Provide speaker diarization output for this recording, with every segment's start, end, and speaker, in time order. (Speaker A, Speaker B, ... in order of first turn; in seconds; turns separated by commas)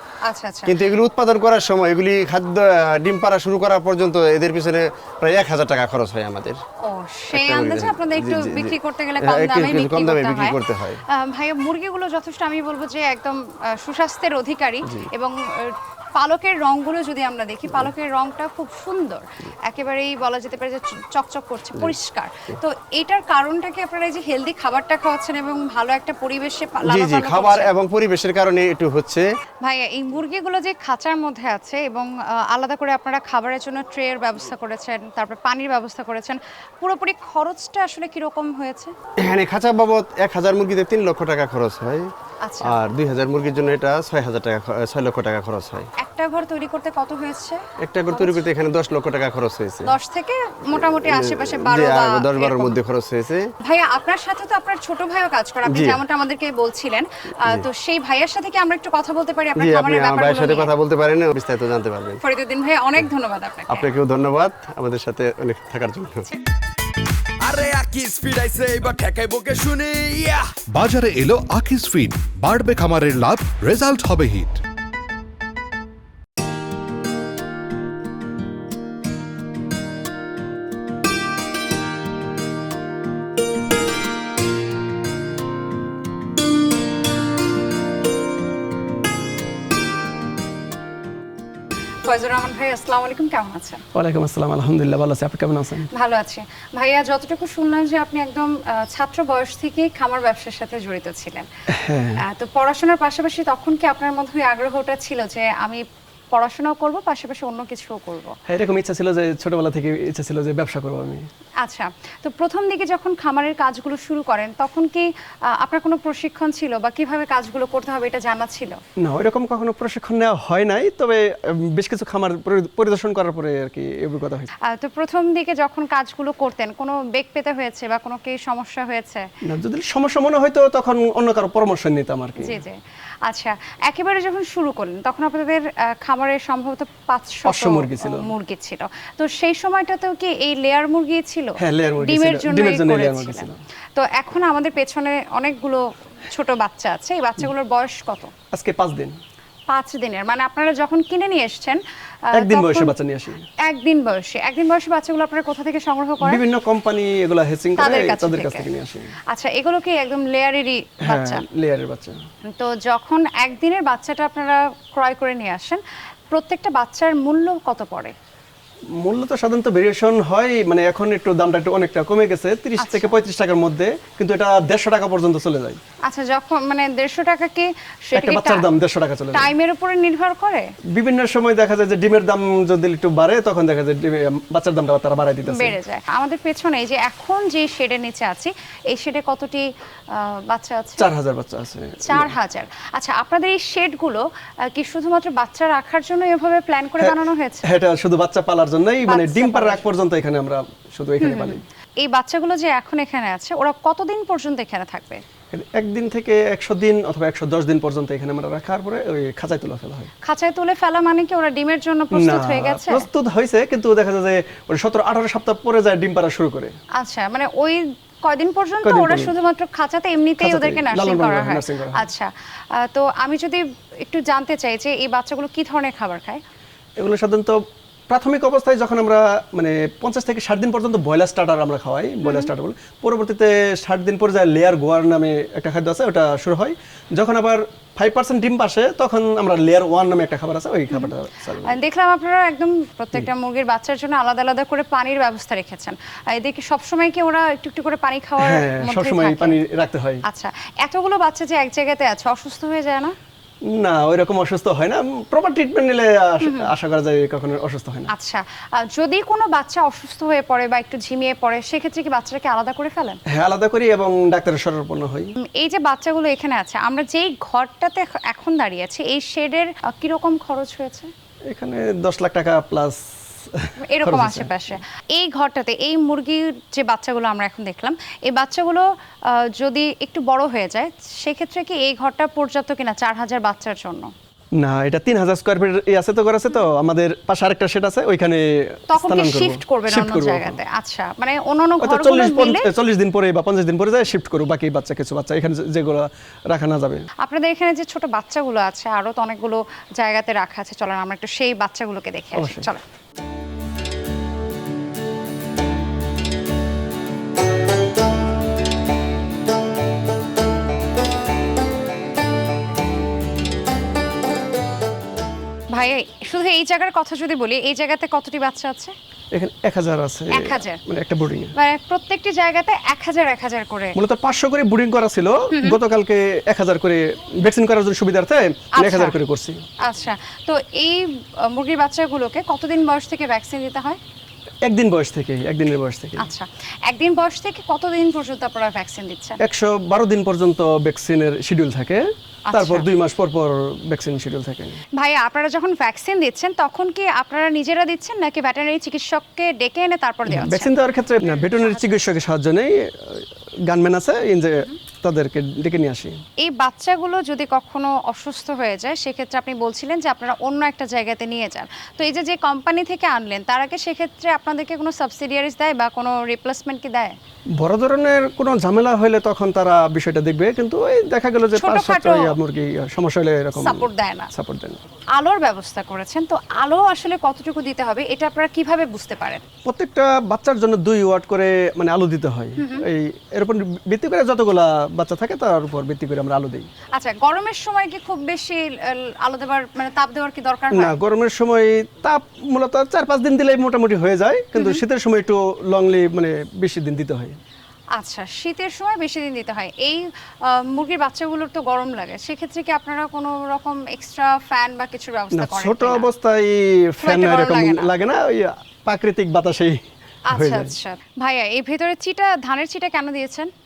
Speaker A: 0.2-1.0, Speaker B: 0.7-6.6, Speaker A: 6.8-10.6, Speaker B: 7.3-11.0, Speaker A: 11.1-27.7, Speaker B: 26.8-29.3, Speaker A: 29.6-38.9, Speaker B: 39.2-42.1, Speaker A: 42.4-42.8, Speaker B: 42.6-45.9, Speaker A: 46.0-47.6, Speaker B: 47.8-49.9, Speaker A: 48.1-48.4, Speaker A: 49.8-52.8, Speaker B: 50.7-53.4, Speaker A: 53.6-60.7, Speaker B: 55.7-56.0, Speaker B: 59.5-62.2, Speaker A: 62.2-63.9, Speaker B: 63.7-66.2, Speaker C: 67.4-70.5, Speaker D: 70.7-74.6, Speaker A: 92.0-93.8, Speaker E: 93.9-95.9, Speaker A: 95.9-101.5, Speaker E: 101.7-102.2, Speaker A: 102.2-108.3, Speaker E: 108.5-111.3, Speaker A: 111.6-118.8, Speaker E: 119.0-124.5, Speaker A: 124.6-129.2, Speaker E: 129.5-132.6, Speaker A: 132.4-148.3, Speaker E: 137.4-138.3, Speaker E: 141.6-143.6, Speaker E: 148.5-149.2, Speaker A: 149.7-151.8, Speaker A: 152.3-152.9, Speaker E: 152.3-153.5, Speaker A: 153.6-156.4, Speaker E: 156.2-159.1, Speaker A: 157.8-158.7, Speaker A: 159.3-161.4, Speaker E: 161.0-162.2, Speaker A: 162.4-165.8, Speaker A: 166.3-168.1, Speaker E: 169.0-175.8, Speaker A: 172.8-173.2, Speaker A: 176.0-178.7, Speaker E: 178.1-179.5, Speaker A: 179.3-180.7, Speaker E: 180.9-185.8, Speaker A: 185.5-191.1, Speaker E: 191.0-192.3, Speaker A: 192.0-197.7, Speaker E: 197.0-201.6, Speaker A: 199.1-199.8, Speaker A: 201.2-205.2, Speaker E: 205.5-210.1, Speaker A: 210.2-213.1, Speaker E: 212.1-216.7, Speaker A: 217.0-226.4, Speaker E: 218.8-219.3, Speaker E: 220.4-222.1, Speaker E: 227.0-227.6, Speaker E: 228.1-241.8, Speaker A: 232.2-232.5, Speaker A: 241.6-249.6, Speaker E: 248.4-250.2, Speaker A: 250.3-253.1, Speaker E: 253.7-258.1, Speaker A: 256.4-256.7, Speaker A: 258.1-263.2, Speaker E: 263.3-265.3, Speaker A: 265.4-271.1, Speaker E: 271.5-274.7, Speaker A: 273.9-284.1, Speaker E: 284.6-290.6, Speaker A: 288.9-292.7, Speaker E: 291.8-297.1, Speaker A: 297.2-302.8, Speaker E: 302.3-302.7, Speaker A: 315.7-318.9, Speaker E: 319.3-321.5, Speaker A: 320.3-320.8, Speaker A: 321.6-324.0, Speaker E: 323.9-329.6, Speaker A: 325.5-325.8, Speaker A: 328.7-329.1, Speaker A: 329.8-334.0, Speaker E: 334.6-336.3, Speaker A: 336.2-339.4, Speaker E: 339.4-344.8, Speaker A: 342.5-342.9, Speaker A: 345.0-351.9, Speaker E: 350.3-356.2, Speaker A: 356.4-367.1, Speaker E: 367.6-374.8, Speaker A: 371.5-372.4, Speaker A: 373.6-374.3, Speaker A: 375.1-379.4, Speaker E: 379.6-386.7, Speaker A: 382.6-382.9, Speaker A: 386.9-390.9, Speaker E: 390.7-397.4, Speaker A: 394.6-394.8, Speaker A: 397.9-406.1, Speaker E: 405.3-409.8, Speaker A: 407.0-407.9, Speaker A: 410.3-413.5, Speaker E: 410.3-410.7